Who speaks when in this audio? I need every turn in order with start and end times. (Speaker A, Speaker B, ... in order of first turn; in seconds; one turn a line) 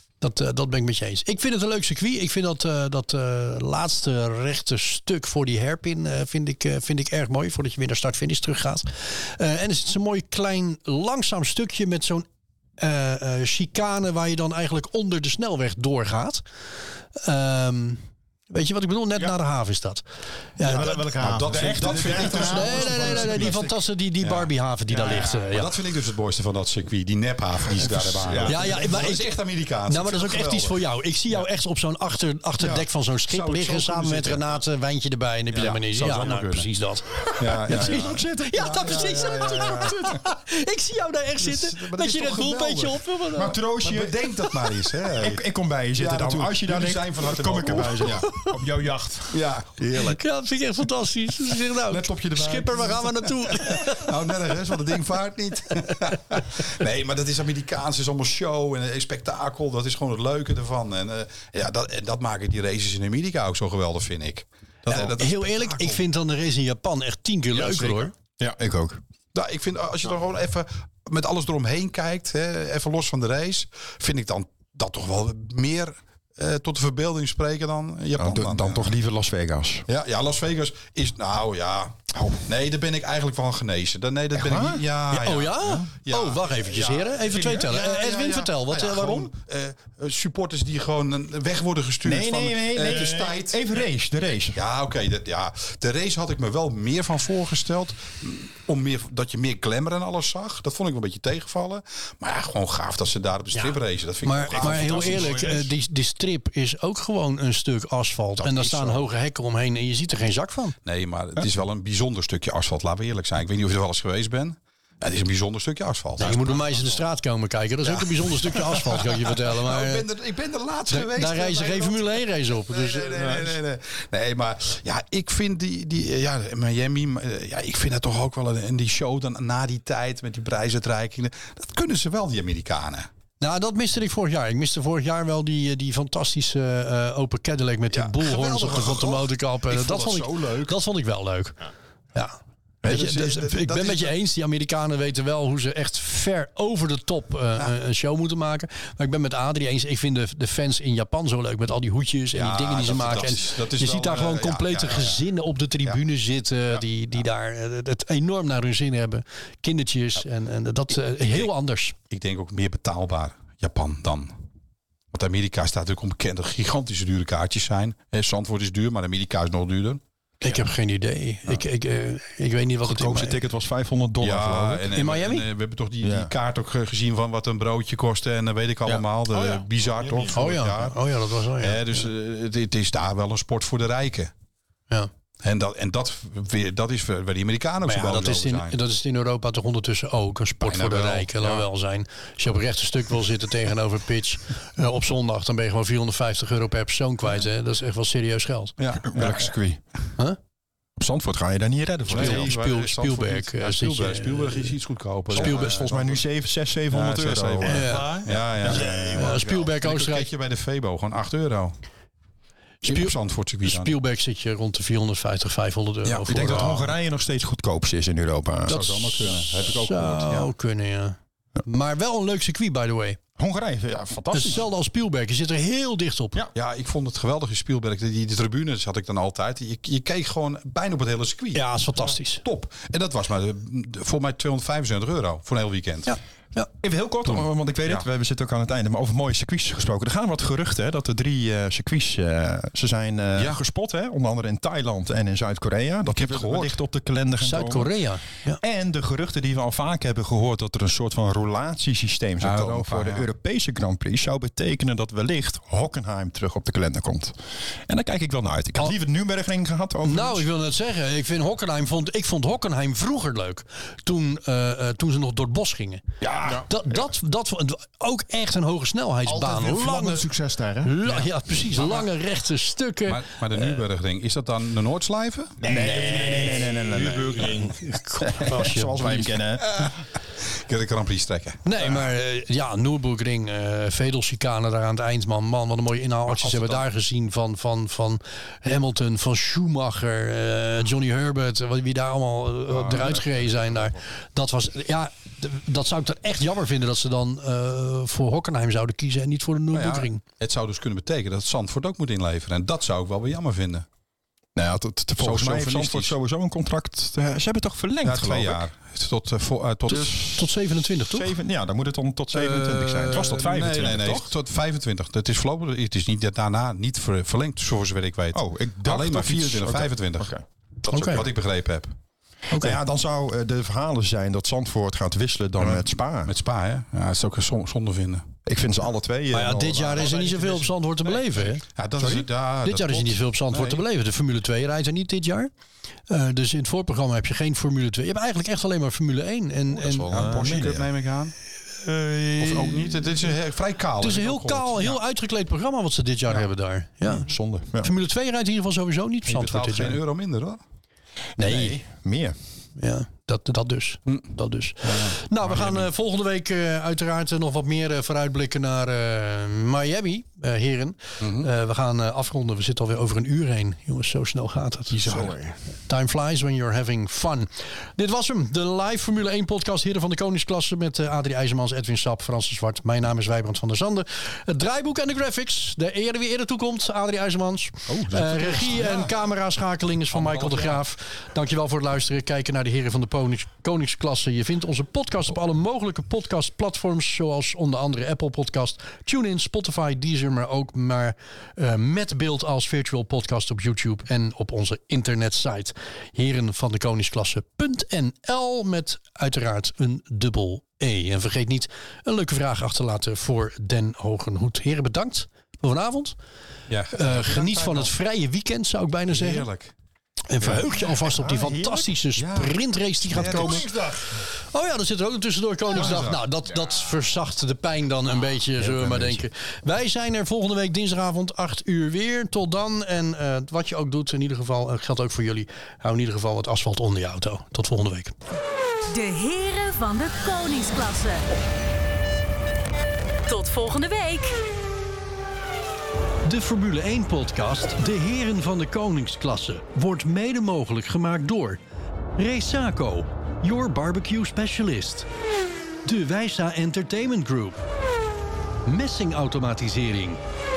Speaker A: 0.2-12.2
Speaker A: 12.8-16.4
Speaker A: 17.1-20.0
Speaker A: 20.6-21.1
Speaker B: 20.6-23.7
Speaker C: 21.2-23.6
Speaker D: 21.5-22.6
Speaker A: 22.2-25.8
Speaker C: 24.2-31.4
Speaker B: 27.8-29.1
Speaker A: 28.4-29.3
Speaker A: 29.9-43.6
Speaker C: 32.6-34.5
Speaker C: 35.5-36.7
Speaker C: 37.3-40.2
Speaker D: 37.6-38.2
Speaker C: 41.4-43.0
Speaker D: 43.3-48.5
Speaker C: 43.8-45.4
Speaker C: 46.0-48.3
Speaker A: 48.1-48.5
Speaker B: 48.5-49.3
Speaker C: 49.3-50.2
Speaker A: 49.9-54.1
Speaker C: 51.6-66.0
Speaker A: 64.9-68.1
Speaker B: 67.5-68.1
Speaker D: 68.4-69.0
Speaker C: 69.3-78.9
Speaker D: 78.2-79.8
Speaker C: 79.9-93.6
Speaker D: 82.1-82.4
Speaker D: 84.3-84.8
Speaker A: 85.1-89.3
Speaker D: 92.0-94.6
Speaker C: 94.5-105.5
Speaker A: 103.5-110.8
Speaker B: 104.5-105.7
Speaker C: 108.4-109.0
Speaker C: 110.8-116.7
Speaker A: 116.2-120.1
Speaker C: 117.9-133.1
Speaker A: 120.9-123.4
Speaker B: 123.1-123.5
Speaker A: 133.4-141.6
Speaker C: 137.9-140.7
Speaker A: 142.1-161.9
Speaker C: 142.8-144.1
Speaker C: 152.3-155.2
Speaker C: 161.2-161.5
Speaker C: 162.1-164.3
Speaker C: 165.1-170.0
Speaker A: 170.4-173.4
Speaker D: 172.8-174.9
Speaker C: 174.2-181.0
Speaker A: 174.9-175.4
Speaker D: 176.0-176.3
Speaker B: 178.9-180.4
Speaker A: 180.3-182.0
Speaker C: 181.6-184.3
Speaker C: 185.4-188.8
Speaker A: 187.8-198.7
Speaker C: 190.6-191.7
Speaker C: 198.8-199.5
Speaker D: 199.0-199.8
Speaker D: 201.0-202.5
Speaker C: 202.1-206.2
Speaker A: 202.1-204.7
Speaker A: 205.3-205.8
Speaker D: 205.3-209.4
Speaker C: 206.9-211.8
Speaker A: 207.6-208.1
Speaker B: 207.8-209.7
Speaker A: 208.9-210.3
Speaker A: 212.8-216.7
Speaker C: 212.8-213.9
Speaker C: 216.0-216.8
Speaker D: 216.3-218.9
Speaker C: 218.7-220.5
Speaker A: 218.7-223.2
Speaker D: 219.6-220.4
Speaker D: 223.4-224.6
Speaker A: 224.3-226.4
Speaker C: 226.5-231.6
Speaker A: 231.5-232.4
Speaker C: 232.3-236.1
Speaker A: 236.1-236.7
Speaker D: 236.8-247.9
Speaker C: 237.3-238.0
Speaker C: 246.1-246.8
Speaker A: 247.4-248.6
Speaker D: 248.6-257.4
Speaker C: 252.4-253.2
Speaker D: 257.9-260.4
Speaker A: 260.0-266.0
Speaker D: 266.2-267.0
Speaker A: 266.6-270.3
Speaker B: 269.2-270.9
Speaker A: 270.8-273.6
Speaker C: 271.7-272.1
Speaker C: 273.1-276.5
Speaker B: 275.6-277.8
Speaker D: 275.6-279.8
Speaker A: 277.4-279.3
Speaker C: 279.6-282.0
Speaker A: 281.6-300.2
Speaker C: 286.3-286.8
Speaker C: 292.7-293.9
Speaker C: 299.7-303.9
Speaker D: 304.6-308.6
Speaker C: 305.2-306.1
Speaker C: 308.0-310.3
Speaker A: 309.9-311.3
Speaker D: 309.9-310.4
Speaker D: 311.1-314.3
Speaker C: 312.3-320.3
Speaker D: 318.3-321.3
Speaker A: 320.9-321.2
Speaker C: 321.0-321.9
Speaker A: 322.5-322.8
Speaker D: 322.5-326.3
Speaker C: 325.6-328.2
Speaker D: 328.4-330.3
Speaker A: 329.3-335.5
Speaker C: 331.7-333.8
Speaker A: 336.1-340.2
Speaker C: 339.7-341.3
Speaker D: 340.1-340.9
Speaker A: 341.8-343.1
Speaker C: 342.4-345.0
Speaker A: 344.0-350.0
Speaker D: 347.2-347.9
Speaker C: 349.2-350.6
Speaker D: 351.4-352.4
Speaker A: 351.4-351.8
Speaker A: 352.8-365.3
Speaker C: 354.8-355.9
Speaker C: 361.2-361.5
Speaker B: 364.9-365.5
Speaker A: 365.9-406.2
Speaker D: 378.1-378.6
Speaker C: 378.5-379.1
Speaker C: 380.1-380.8
Speaker C: 406.7-407.9
Speaker A: 406.9-409.5
Speaker C: 409.1-409.7
Speaker A: 410.3-413.6
Speaker C: 412.1-412.5
Speaker C: 413.1-413.7
Speaker B: 413.2-414.2
Speaker A: 414.4-428.1
Speaker C: 415.7-416.2
Speaker C: 418.6-419.1
Speaker E: 428.9-431.3
Speaker E: 433.3-434.4
Speaker A: 436.2-441.6
Speaker A: 442.1-445.1
Speaker A: 445.8-447.6
Speaker A: 448.6-450.2